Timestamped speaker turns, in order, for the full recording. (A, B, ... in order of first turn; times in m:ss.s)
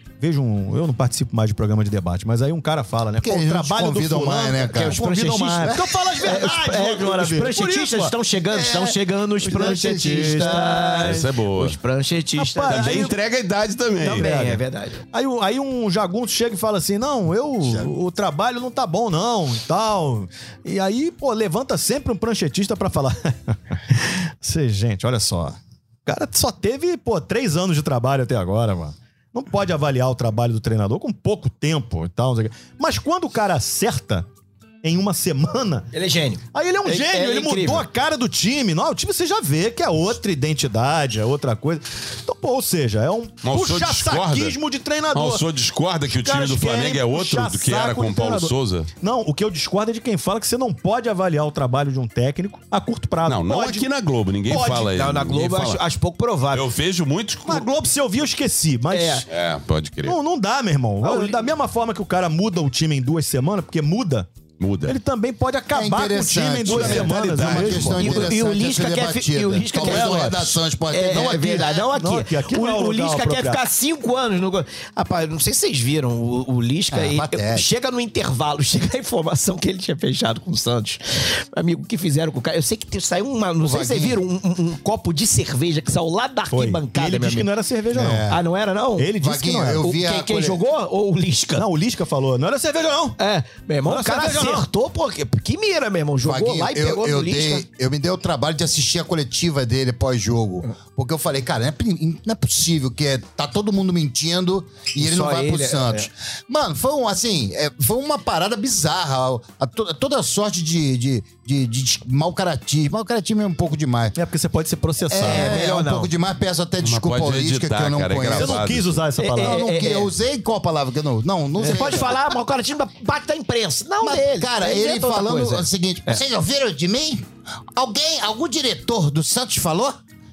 0:00.2-0:11.2 A
0:03.2-0:05.8 B
0:04.7-0:13.1 C
0:09.6-0:10.6 B
0:11.0-0:11.8 D
0:12.4-0:13.2 A
0:12.7-0:14.3 D
0:14.0-0:34.3 A
0:14.1-0:15.0 C
0:17.6-0:17.9 D
0:34.8-0:35.9 A
0:35.9-0:37.8 C
0:36.5-0:45.4 A
0:43.4-0:44.6 D
0:45.1-0:48.9 D
0:46.1-0:53.8 A
0:53.2-0:55.8 D
0:54.5-0:54.9 A
0:54.8-0:56.7 C
0:56.5-0:57.7 D
0:57.5-0:59.3 A
0:58.9-0:59.2 C
0:59.3-1:00.2 D
1:00.0-1:04.3 A
1:01.0-1:01.5 C
1:04.6-1:05.0 D
1:04.8-1:08.3 A
1:05.7-1:11.9 B
1:06.6-1:08.3 D
1:08.0-1:27.5 C
1:09.7-1:10.5 A
1:11.9-1:13.6 A
1:16.9-1:17.7 B
1:23.6-1:24.2 B
1:26.5-1:28.3 A
1:27.9-1:28.4 B
1:28.3-1:29.2 C
1:29.0-1:29.9 A
1:29.2-1:30.6 B
1:29.8-1:31.7 C
1:31.6-1:33.2 A
1:33.2-1:37.6 C
1:33.8-1:34.7 A
1:36.2-1:54.2 B
1:45.0-1:46.1 C
1:54.1-1:55.5 A
1:55.1-1:58.7 B
1:55.2-1:56.1 C
1:56.8-1:59.0 D
1:58.3-1:59.6 A
1:59.2-2:00.1 C
1:59.3-2:02.2 B
2:01.6-2:06.2 C
2:04.0-2:10.0 B